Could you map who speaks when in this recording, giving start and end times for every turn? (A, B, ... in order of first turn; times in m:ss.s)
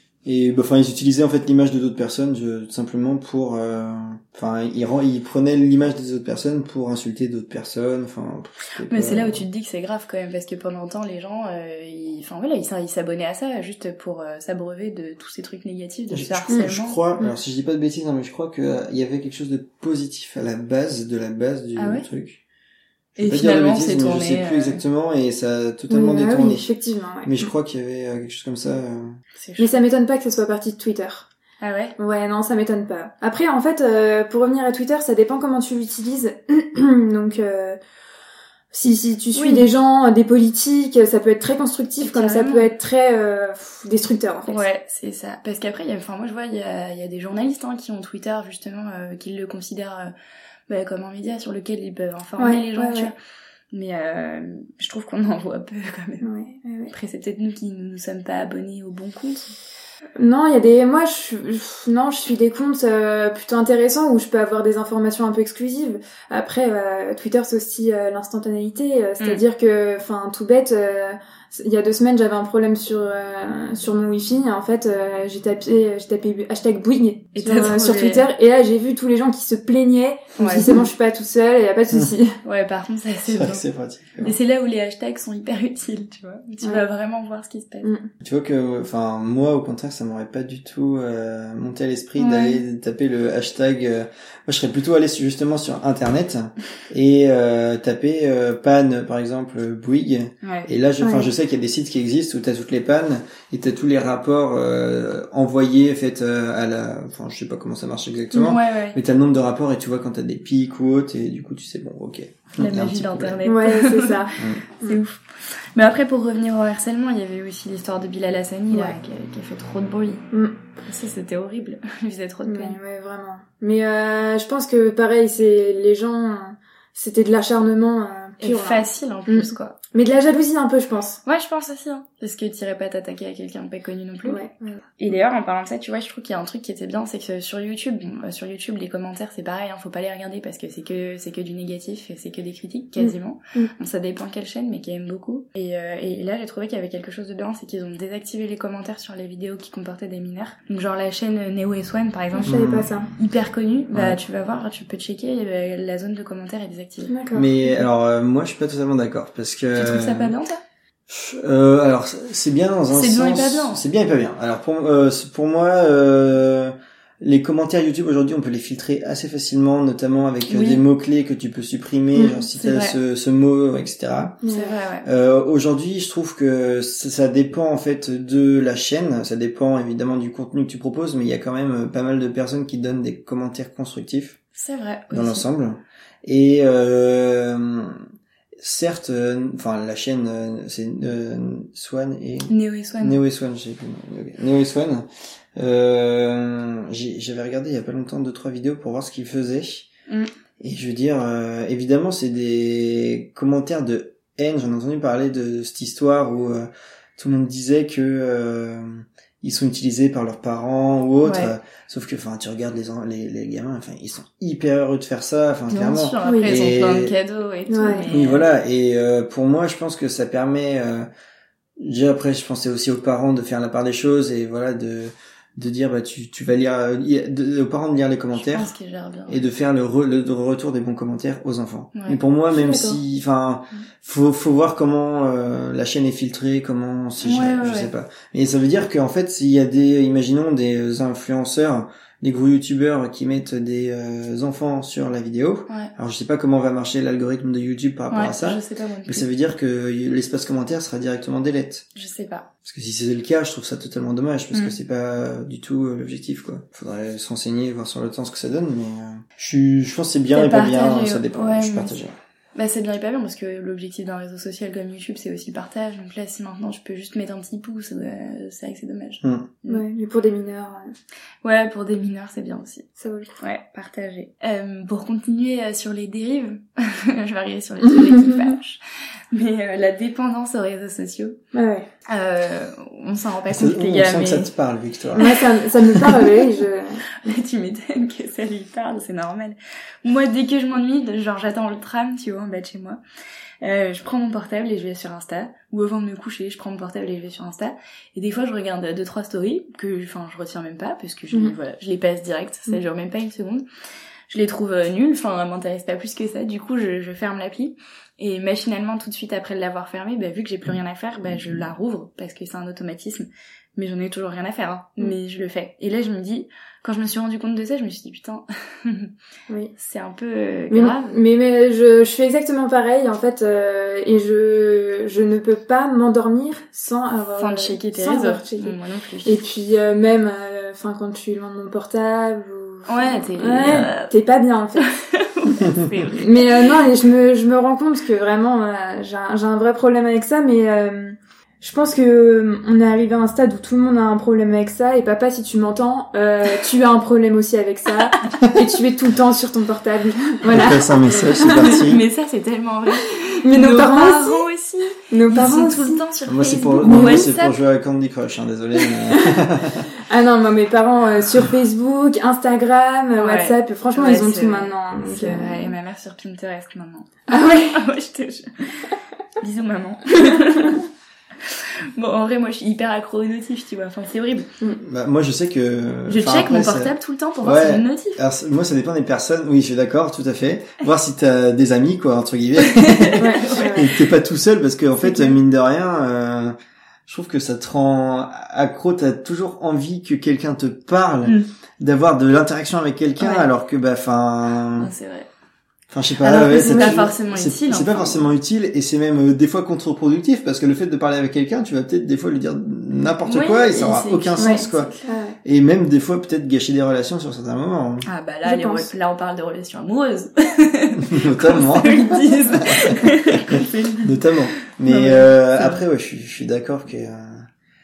0:00.2-0:09.4 A
0:08.8-0:17.0 B
0:16.1-0:22.4 A
0:21.8-0:22.1 B
0:23.2-0:26.7 A
0:23.2-0:24.8 B
0:25.9-0:27.3 C
0:27.2-0:29.2 A
0:29.4-0:29.8 B
0:29.6-0:31.3 C
0:31.6-0:32.0 B
0:32.0-0:37.8 C
0:38.7-0:44.6 C
0:39.3-0:39.7 B
0:42.0-0:42.7 B
0:44.4-0:50.1 B
0:50.7-0:53.1 B
0:52.4-0:53.1 C
0:53.7-0:56.2 B
0:56.2-0:56.9 C
0:56.9-0:59.5 B
1:00.2-1:22.4 C
1:17.4-1:18.3 B
1:20.4-1:20.8 B
1:22.4-1:23.6 B
1:23.2-1:24.3 A
1:24.2-1:27.9 B
1:27.8-1:28.1 C
1:28.2-1:53.4 A
1:32.2-1:32.6 B
1:40.4-1:40.7 B
1:41.0-1:41.3 C
1:48.3-1:49.0 B
1:52.6-1:54.3 B
1:53.4-1:55.0 C
1:54.4-1:54.6 A
1:54.8-2:00.2 B
2:00.9-2:02.8 B
2:02.4-2:11.2 C
2:08.4-2:09.7 B
2:11.2-2:14.4 B
2:14.2-2:14.8 C
2:15.0-2:37.1 B
2:23.0-2:23.7 C
2:32.4-2:33.1 C
2:32.4-2:33.0 A
2:33.9-2:34.2 A
2:37.1-2:37.8 C
2:37.3-2:40.3 A
2:39.7-2:40.6 B
2:41.1-2:54.4 A
2:42.9-2:43.8 B
2:50.5-2:50.8 B
2:52.1-2:52.5 C
2:52.6-2:53.0 B
2:54.4-2:54.7 C
2:54.4-2:55.1 B
2:55.0-3:04.4 A
3:04.6-3:05.4 B
3:05.1-3:08.0 A
3:08.6-3:19.9 A
3:12.5-3:13.2 B
3:20.6-3:37.1 A
3:31.2-3:31.5 B
3:35.7-3:38.5 B
3:36.2-3:36.5 C
3:37.7-3:38.0 C
3:38.1-3:41.1 A
3:41.8-3:48.7 A
3:48.3-3:49.4 B
3:49.3-4:11.8 A
3:51.9-3:52.2 B
3:52.5-3:53.0 C
3:57.2-3:57.9 B
4:08.1-4:09.2 B
4:11.9-4:12.5 B
4:12.6-4:22.1 A
4:20.3-4:21.9 B
4:22.5-4:29.8 B
4:29.2-4:29.5 A
4:29.7-4:30.9 C
4:31.4-4:32.9 B
4:33.0-4:33.3 C
4:33.4-4:38.8 B
4:37.8-4:38.5 C
4:39.3-4:41.4 B
4:41.5-4:41.9 C
4:42.1-4:44.5 B
4:43.5-4:45.4 A
4:45.1-4:47.0 C
4:47.2-4:53.0 B
4:53.6-5:03.6 B
5:01.3-5:01.6 C
5:04.3-5:19.1 B
5:19.7-5:21.1 B
5:20.7-5:34.9 C
5:27.4-5:29.4 B
5:32.9-5:34.1 B
5:34.8-5:36.8 B
5:36.1-5:51.8 C
5:50.5-5:52.0 A
5:51.6-5:57.6 B
5:53.1-5:54.5 C
5:55.0-5:56.0 C
5:56.3-5:59.9 A
5:56.8-5:57.3 C
5:59.1-5:59.4 C
6:00.1-6:05.7 C
6:03.2-6:10.8 B
6:07.3-6:07.8 C
6:11.4-6:14.5 B
6:14.8-6:26.5 A
6:16.1-6:18.2 B
6:22.6-6:23.9 B
6:23.2-6:23.9 C
6:25.0-6:25.3 B
6:27.0-6:34.9 A
6:33.2-6:33.5 B
6:34.8-6:35.3 B
6:35.9-6:44.9 A
6:36.2-6:38.3 B
6:36.5-6:37.0 C
6:43.2-6:45.1 B
6:44.4-6:45.4 C
6:45.4-6:48.1 A
6:48.0-6:55.8 B
6:48.4-6:48.9 C
6:51.0-6:57.4 A